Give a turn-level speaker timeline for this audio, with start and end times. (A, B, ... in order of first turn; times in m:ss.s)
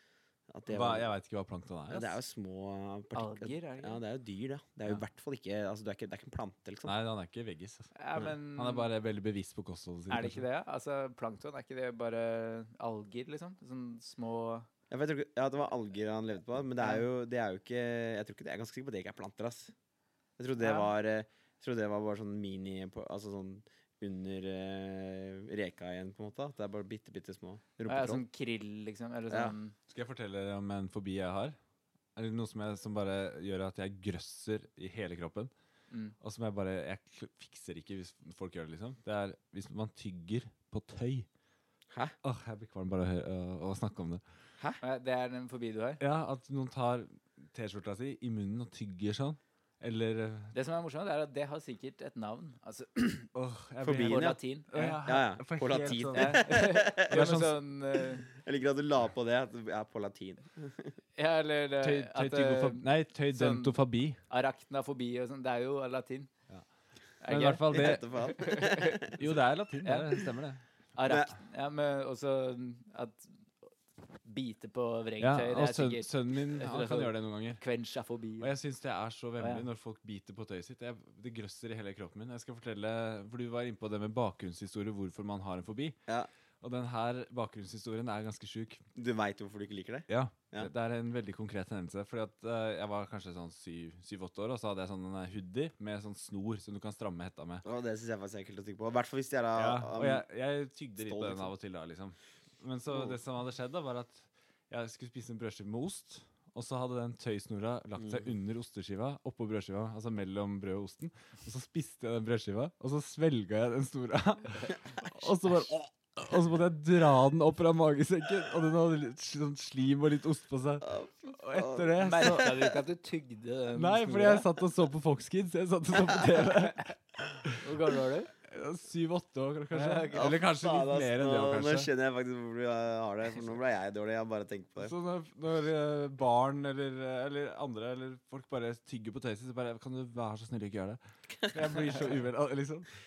0:00.5-0:01.1 A
0:00.7-0:02.1 B
0:01.9-0:06.9 A
0:03.1-0:04.0 C
0:06.9-0:07.9 B
0:08.0-0:08.9 C
0:08.5-0:10.4 B
0:10.1-0:14.7 C
0:14.9-0:19.7 A
0:20.4-0:28.2 A
0:20.6-0:20.9 C
0:27.9-0:29.7 C
0:29.9-0:31.6 B
0:32.2-0:35.5 B
0:36.2-0:41.2 B
0:42.2-0:44.2 B
0:44.8-0:46.0 C
0:46.0-0:50.5 B
0:50.5-0:53.3 C
0:53.3-0:56.5 B
0:53.8-0:54.4 A
0:54.0-0:55.0 C
0:55.0-0:57.2 A
0:56.1-0:58.3 C
0:57.1-0:57.6 B
0:58.3-1:00.9 A
1:01.2-1:03.8 C
1:01.8-1:04.2 B
1:04.3-1:06.3 C
1:07.2-1:09.2 C
1:07.2-1:08.0 B
1:07.7-1:09.2 A
1:09.2-1:10.6 B
1:09.8-1:10.2 C
1:11.0-1:13.7 C
1:11.0-1:11.3 A
1:14.2-1:18.5 C
1:15.2-1:17.6 B
1:18.4-1:26.0 B
1:19.4-1:19.6 C
1:26.6-1:28.8 B
1:29.0-1:30.7 A
1:30.1-1:37.6 B
1:37.6-1:40.2 A
1:39.5-2:02.5 B
1:41.0-1:41.5 A
2:00.8-2:02.5 A
2:02.0-2:04.5 C
2:03.8-2:07.6 B
2:07.6-2:08.3 C
2:08.4-2:11.9 B
2:09.7-2:10.3 C
2:10.1-2:14.9 A
2:14.8-2:22.9 B